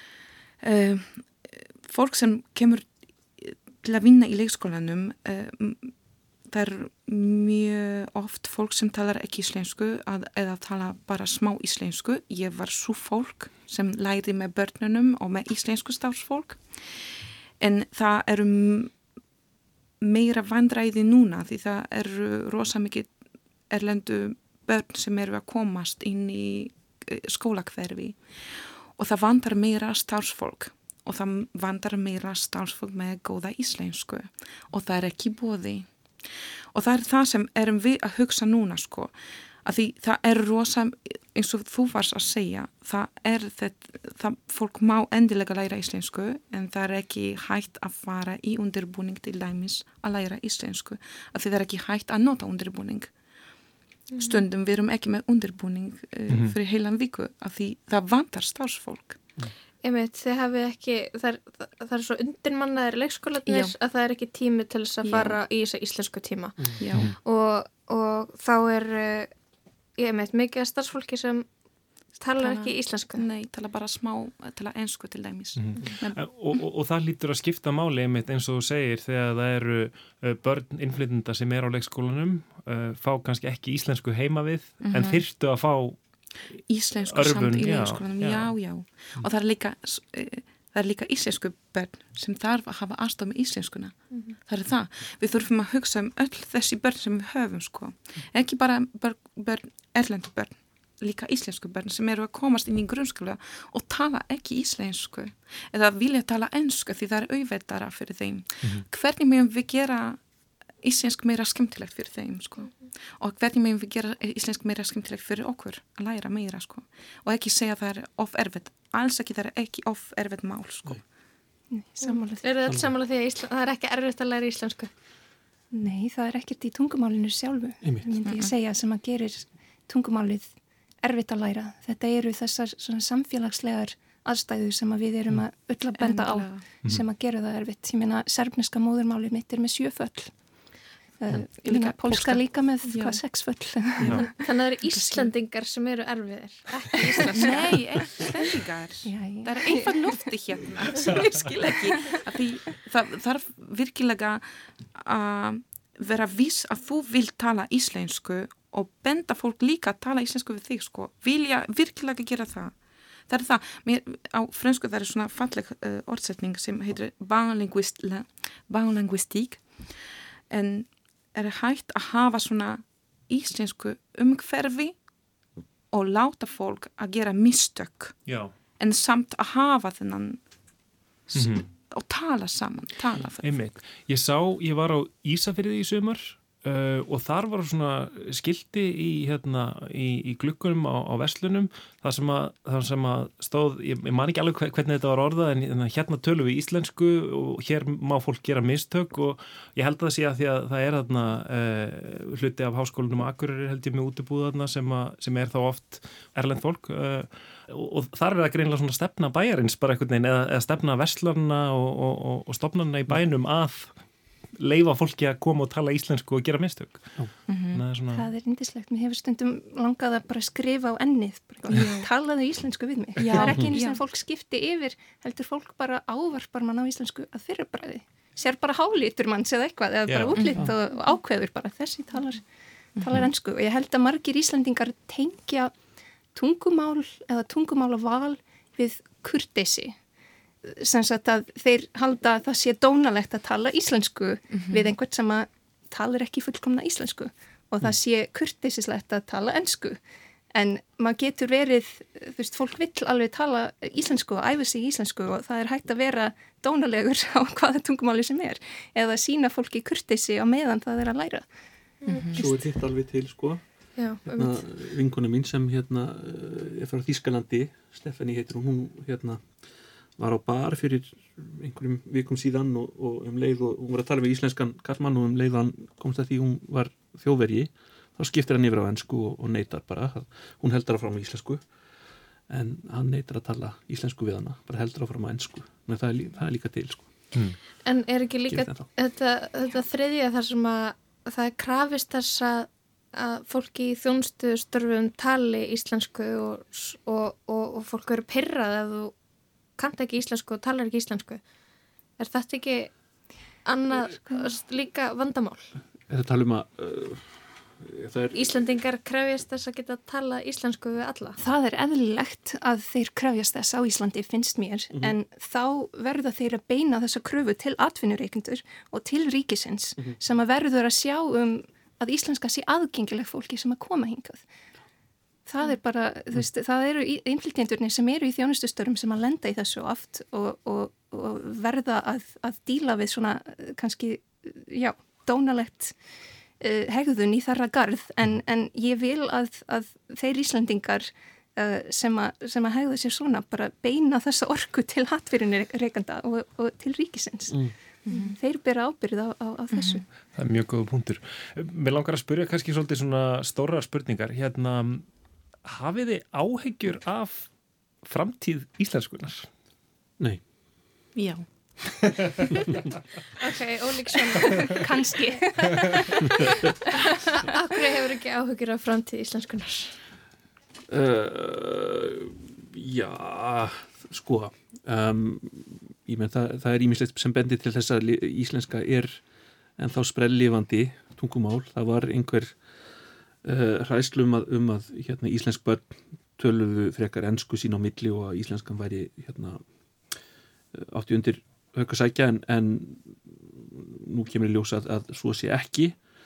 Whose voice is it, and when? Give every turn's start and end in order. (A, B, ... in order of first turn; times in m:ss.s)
0:00.6-0:05.9 A
0:06.5-0:16.6 A
0:17.6-0:18.9 A
0:20.0-0:23.1 A
0:23.7-0:35.9 A
0:36.7-0:39.1 A
0:39.6-0:53.1 A
0:54.1-0:54.4 B
0:54.2-0:59.2 A
0:56.3-0:56.6 C
0:59.8-1:06.6 B
1:03.4-1:03.7 A
1:05.0-1:05.4 A
1:06.6-1:07.1 D
1:06.8-1:07.1 A
1:07.2-1:09.3 B
1:10.0-1:11.5 B
1:12.2-1:13.2 B
1:12.4-1:16.2 A
1:15.6-1:26.0 C
1:24.8-1:25.2 A
1:26.7-1:50.2 A
1:27.0-1:28.6 C
1:50.8-2:01.0 A
2:01.7-2:02.5 E
2:02.0-2:04.9 B
2:02.7-2:02.9 D
2:05.7-2:10.5 E
2:07.8-2:08.2 D
2:08.2-2:08.5 A
2:11.0-2:20.3 E
2:16.0-2:16.6 A
2:21.2-2:24.2 E
2:21.6-2:22.4 A
2:22.9-2:23.2 A
2:24.0-2:27.8 B
2:24.9-2:25.3 A
2:27.2-2:42.7 A
2:29.0-2:30.1 E
2:43.3-2:50.0 A
2:50.5-2:55.0 A
2:55.9-3:00.4 A
2:58.3-2:58.5 C
3:01.3-3:03.5 A
3:01.4-3:01.6 C
3:03.4-3:34.0 C
3:34.6-3:37.2 C
3:37.5-3:37.8 A
3:37.7-3:38.3 C
3:38.1-3:52.4 E
3:43.4-3:44.0 A
3:43.4-3:43.7 D
3:50.1-3:50.5 C
3:53.0-3:53.2 A
3:53.0-3:55.7 E
3:56.3-4:00.0 E
4:00.6-4:10.0 E
4:04.5-4:04.9 A
4:10.5-4:21.4 E
4:22.0-4:22.4 B
4:22.1-4:22.4 A
4:22.3-4:29.6 D
4:23.9-4:24.6 B
4:30.2-4:41.6 D
4:42.5-4:47.1 D
4:47.8-4:59.1 B
4:48.5-4:48.9 D
4:59.8-5:01.4 B
5:02.2-5:02.9 B
5:03.6-5:05.7 B
5:06.1-5:08.4 D
5:08.3-5:11.4 B
5:11.4-5:24.4 E
5:25.4-5:36.0 E
5:36.6-5:50.0 E
5:47.5-5:47.7 D
5:48.0-5:48.4 A
5:49.7-5:50.0 A
5:50.3-5:55.1 C
5:55.6-5:57.5 C
5:58.0-5:59.5 C
6:03.4-6:04.7 B
6:04.1-6:06.0 E
6:07.4-6:10.0 B
6:10.9-6:19.2 D
6:19.8-6:22.6 D
6:23.4-6:29.6 D
6:30.7-6:36.0 D